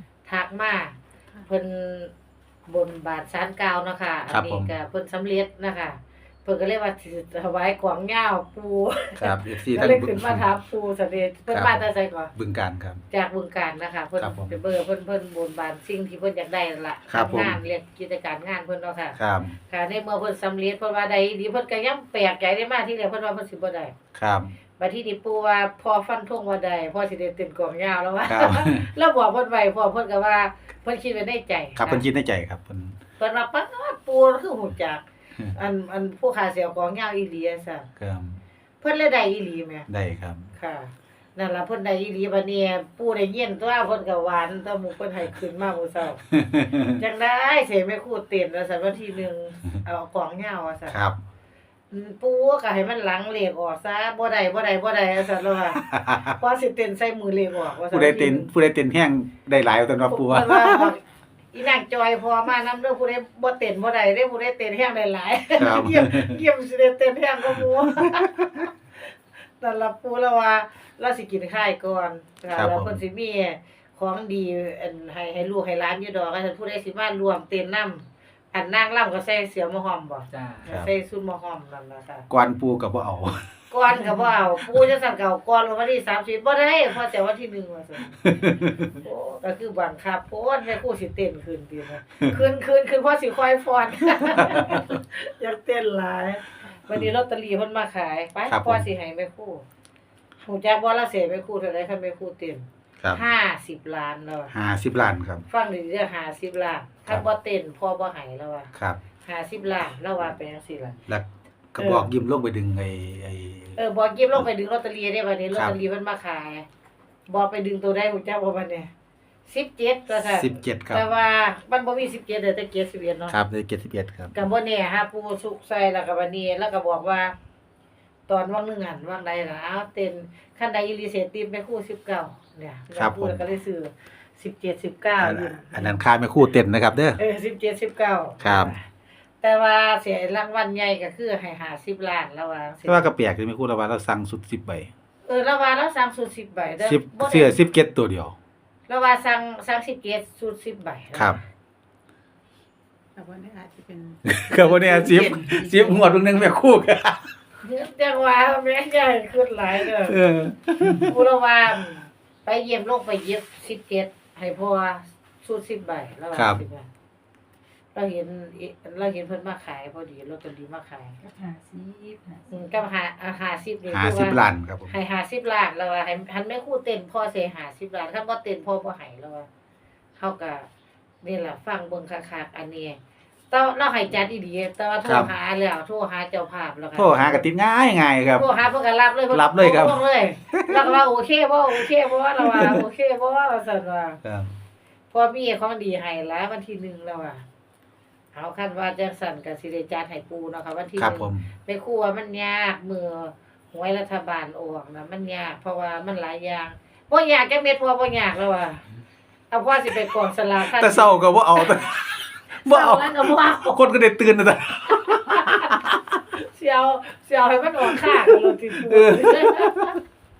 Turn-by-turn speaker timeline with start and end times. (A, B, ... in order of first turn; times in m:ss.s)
0:00.2-0:02.1 A
0:02.7-0:12.3 A
0:04.3-0:04.7 B
0:09.2-0:10.4 B
0:11.5-0:11.8 B
0:12.3-0:13.0 B
0:13.1-0:23.9 A
0:14.2-0:14.6 B
0:17.1-0:17.6 B
0:19.2-0:19.6 B
0:24.1-0:24.5 B
0:24.8-0:32.0 A
0:28.3-0:28.9 B
0:31.8-0:33.0 B
0:33.2-0:37.9 A
0:38.0-0:38.4 B
0:38.8-0:39.9 A
0:39.9-0:40.5 B
0:40.6-0:46.2 A
0:46.3-0:47.0 B
0:46.8-0:51.0 A
0:50.9-0:51.2 B
0:51.9-0:58.5 A
0:55.8-0:56.3 B
0:57.9-1:00.9 B
1:00.1-1:01.0 A
1:01.5-1:22.3 A
1:05.6-1:06.4 B
1:07.9-1:08.6 B
1:12.5-1:13.0 B
1:20.3-1:20.7 C
1:22.3-1:23.6 B
1:23.7-1:28.2 A
1:28.2-1:28.9 B
1:29.0-1:39.6 A
1:34.4-1:34.8 B
1:38.5-1:38.8 B
1:40.4-1:44.5 A
1:44.5-1:45.4 B
1:45.5-1:48.7 A
1:48.7-1:49.0 B
1:49.2-1:51.0 A
1:51.1-1:53.8 B
1:51.8-1:52.1 A
1:53.8-1:56.6 A
1:57.3-1:58.9 A
1:59.5-2:03.4 A
2:00.1-2:01.1 B
2:03.3-2:04.3 B
2:04.3-2:07.3 A
2:08.3-2:16.0 A
2:12.9-2:13.4 B
2:15.2-2:17.2 B
2:17.2-2:18.9 A
2:18.4-2:18.7 B
2:19.4-2:23.1 A
2:22.8-2:24.9 B
2:25.2-2:27.5 A
2:26.8-2:28.3 B
2:28.9-2:31.4 A
2:31.1-2:31.4 B
2:33.1-2:36.2 C
2:34.2-2:37.3 B
2:37.6-2:40.2 A
2:39.8-2:41.1 B
2:41.0-2:46.9 A
2:46.3-2:46.6 B
2:47.9-2:51.2 A
2:51.2-2:52.7 C
2:52.5-2:59.5 A
2:53.9-2:54.9 B
3:00.2-3:00.7 A
3:01.2-3:03.0 A
3:03.5-3:07.4 A
3:05.0-3:05.3 B
3:06.9-3:08.5 B
3:08.4-3:14.2 A
3:09.3-3:10.0 B
3:10.5-3:11.0 B
3:11.7-3:12.8 B
3:14.2-3:14.6 B
3:15.1-3:17.4 A
3:18.3-3:28.8 A
3:21.0-3:21.5 B
3:29.5-3:31.8 A
3:30.6-3:36.2 B
3:32.6-3:33.9 A
3:34.9-3:35.8 A
3:36.3-3:40.0 A
3:37.8-3:40.0 B